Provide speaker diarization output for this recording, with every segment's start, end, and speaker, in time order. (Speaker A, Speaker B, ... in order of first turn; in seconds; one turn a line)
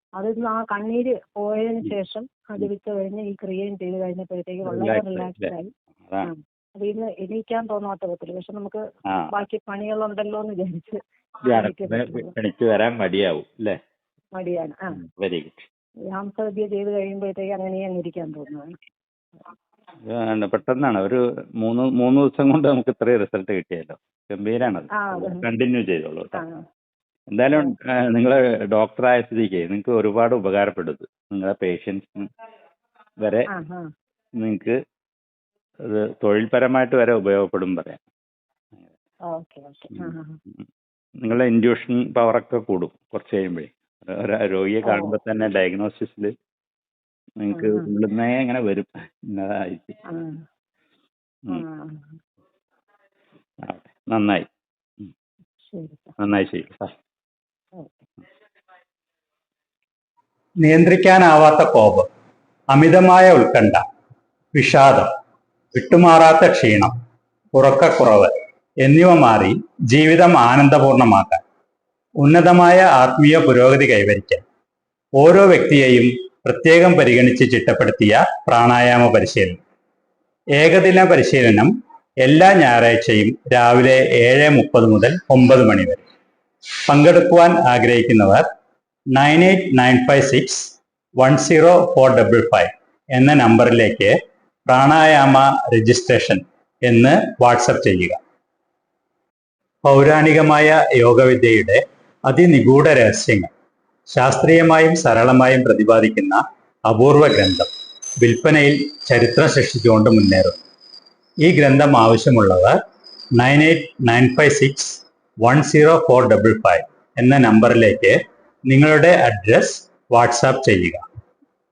Speaker A: 0.2-12.3
Speaker B: 4.7-5.5
Speaker B: 11.4-13.8
Speaker A: 14.3-15.0
Speaker B: 15.0-15.7
Speaker A: 16.1-18.8
Speaker B: 20.0-26.4
Speaker A: 24.9-25.4
Speaker A: 26.3-26.6
Speaker B: 27.3-32.3
Speaker B: 33.2-33.5
Speaker A: 33.5-33.9
Speaker B: 34.4-34.8
Speaker B: 35.8-38.0
Speaker A: 39.3-40.4
Speaker B: 39.9-40.6
Speaker B: 41.2-46.3
Speaker A: 44.9-45.2
Speaker B: 47.4-50.0
Speaker A: 47.5-47.9
Speaker A: 50.1-50.4
Speaker A: 51.5-52.2
Speaker B: 53.6-54.5
Speaker A: 55.6-56.1
Speaker B: 56.2-56.9
Speaker A: 57.8-58.0
Speaker C: 60.6-62.0
Speaker C: 62.7-63.8
Speaker C: 64.5-65.0
Speaker C: 65.7-66.9
Speaker C: 67.6-68.3
Speaker C: 68.8-71.0
Speaker C: 72.2-74.3
Speaker C: 75.2-79.5
Speaker C: 80.6-81.6
Speaker C: 82.3-86.0
Speaker C: 86.9-88.4
Speaker C: 89.2-90.6
Speaker C: 91.2-93.8
Speaker C: 94.7-96.2
Speaker C: 96.9-98.1
Speaker C: 99.9-101.7
Speaker C: 102.3-103.3
Speaker C: 104.2-106.3
Speaker C: 106.9-107.7
Speaker C: 108.2-110.6
Speaker C: 111.4-112.7
Speaker C: 113.4-114.9
Speaker C: 115.4-116.7
Speaker C: 117.2-118.1
Speaker C: 118.7-120.7